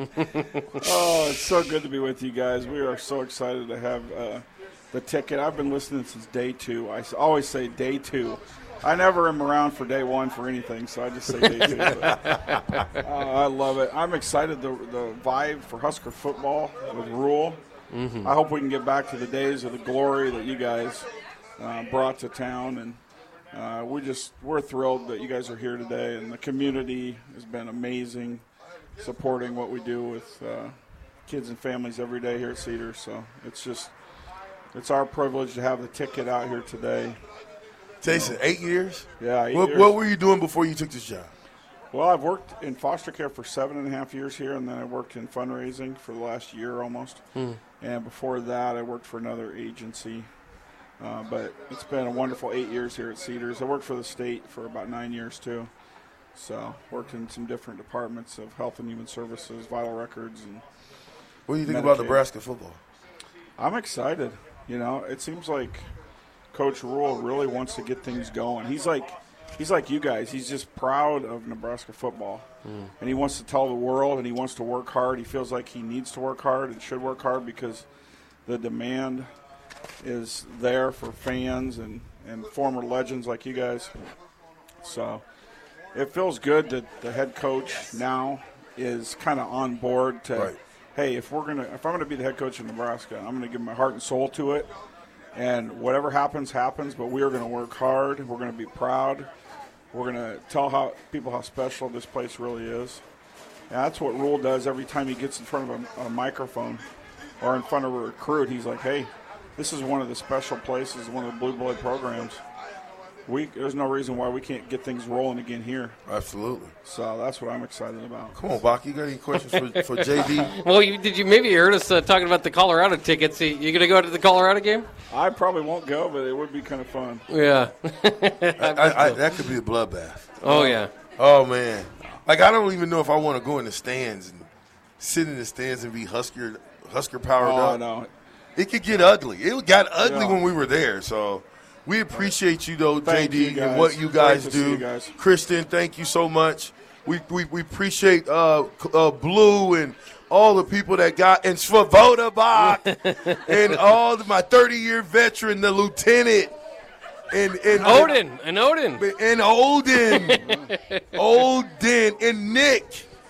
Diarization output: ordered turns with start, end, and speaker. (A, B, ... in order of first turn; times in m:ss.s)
0:00.2-0:00.8 A
0:00.8-0:12.4 B
0:12.1-0:12.7 A
0:12.9-0:17.6 B
0:17.9-0:18.3 A
0:18.2-0:21.1 B
0:21.6-0:23.0 B
0:23.5-0:28.4 B
0:29.0-0:30.8 B
0:31.2-0:33.9 B
0:34.7-0:37.2 B
0:38.0-0:41.3 C
0:38.1-0:38.4 B
0:39.2-0:40.0 B
0:41.9-0:47.2 B
0:47.8-0:50.3 B
0:51.0-0:55.7 B
0:56.3-1:00.6 B
1:01.5-1:02.8 C
1:01.6-1:02.2 B
1:03.6-1:05.9 B
1:06.5-1:12.4 B
1:12.6-1:12.9 A
1:13.0-1:17.8 B
1:18.4-1:19.3 B
1:20.0-1:24.0 B
1:24.8-1:25.2 B
1:25.9-1:34.7 B
1:35.3-1:39.3 B
1:39.9-1:43.0 B
1:43.7-1:46.8 B
1:47.4-1:52.4 B
1:53.2-1:56.0 B
1:56.1-1:56.7 C
1:56.8-1:58.4 B
1:58.3-2:00.5 C
1:59.4-2:04.9 A
2:05.1-2:07.2 B
2:07.3-2:09.3 A
2:08.6-2:10.3 C
2:10.4-2:10.9 A
2:10.4-2:10.8 B
2:11.2-2:14.5 C
2:15.0-2:17.8 C
2:17.4-2:18.1 B
2:18.6-2:36.5 C
2:20.0-2:20.4 B
2:23.0-2:25.1 B
2:32.6-2:33.9 A
2:37.3-2:38.2 C
2:37.7-2:39.0 A
2:39.0-2:40.6 C
2:40.0-2:41.0 A
2:41.1-2:43.1 C